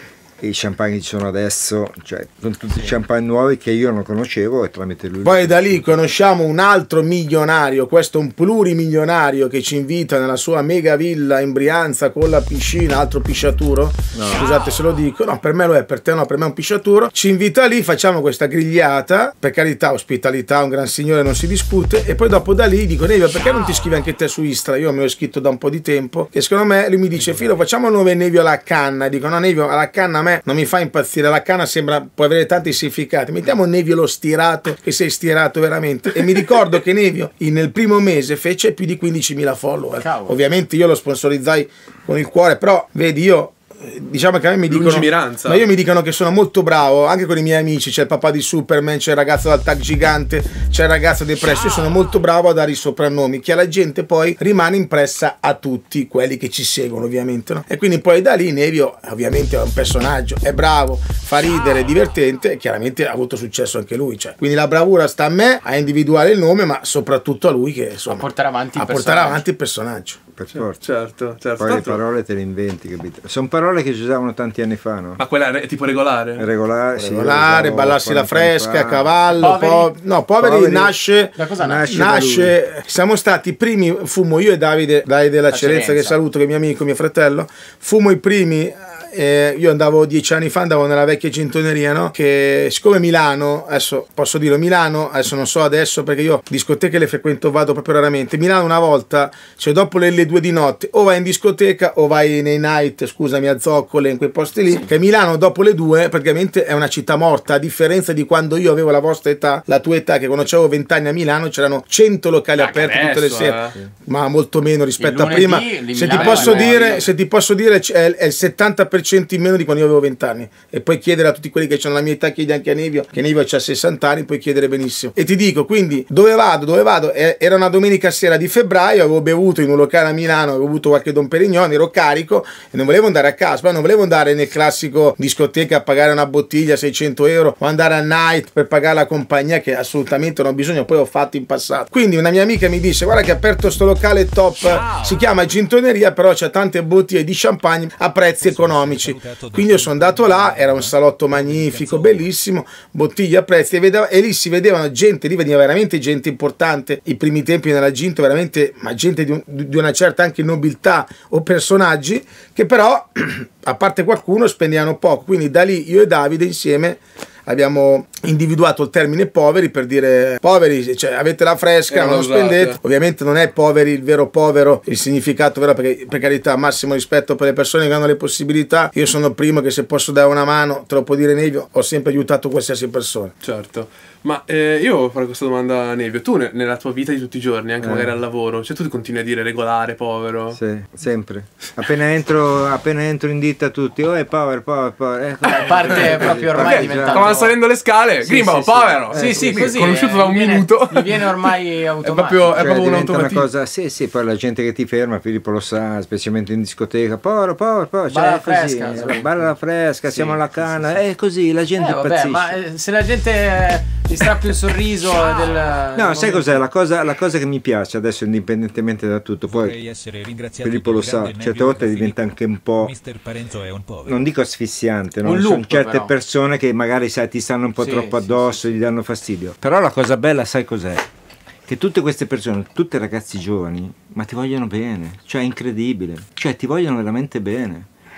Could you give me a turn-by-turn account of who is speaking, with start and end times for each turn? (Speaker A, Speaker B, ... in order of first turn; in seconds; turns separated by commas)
Speaker A: 0.4-5.8, Speaker B: 5.2-70.2, Speaker A: 14.1-14.5, Speaker C: 27.1-27.5, Speaker D: 40.0-40.4, Speaker E: 44.7-45.6, Speaker D: 68.1-69.4, Speaker A: 70.3-70.8, Speaker E: 70.5-72.0, Speaker A: 71.6-75.2, Speaker E: 75.2-76.5, Speaker A: 76.4-79.5, Speaker B: 77.0-183.3, Speaker D: 79.3-79.9, Speaker A: 80.4-81.0, Speaker D: 81.3-81.9, Speaker A: 81.6-82.6, Speaker D: 85.5-86.2, Speaker E: 112.5-113.7, Speaker D: 115.0-117.1, Speaker E: 116.1-117.1, Speaker C: 148.4-152.2, Speaker E: 171.9-172.8, Speaker E: 183.4-190.6, Speaker A: 187.8-188.2, Speaker A: 190.5-197.4, Speaker D: 195.5-197.6, Speaker E: 195.5-203.5, Speaker D: 198.2-202.8, Speaker A: 199.1-199.6, Speaker A: 202.6-212.6, Speaker D: 208.1-209.3, Speaker D: 210.1-210.3, Speaker D: 211.8-216.6, Speaker A: 215.9-219.8, Speaker C: 219.5-224.1, Speaker A: 220.6-222.9, Speaker A: 224.0-231.1, Speaker D: 225.2-226.1, Speaker D: 227.8-228.6, Speaker A: 231.7-237.9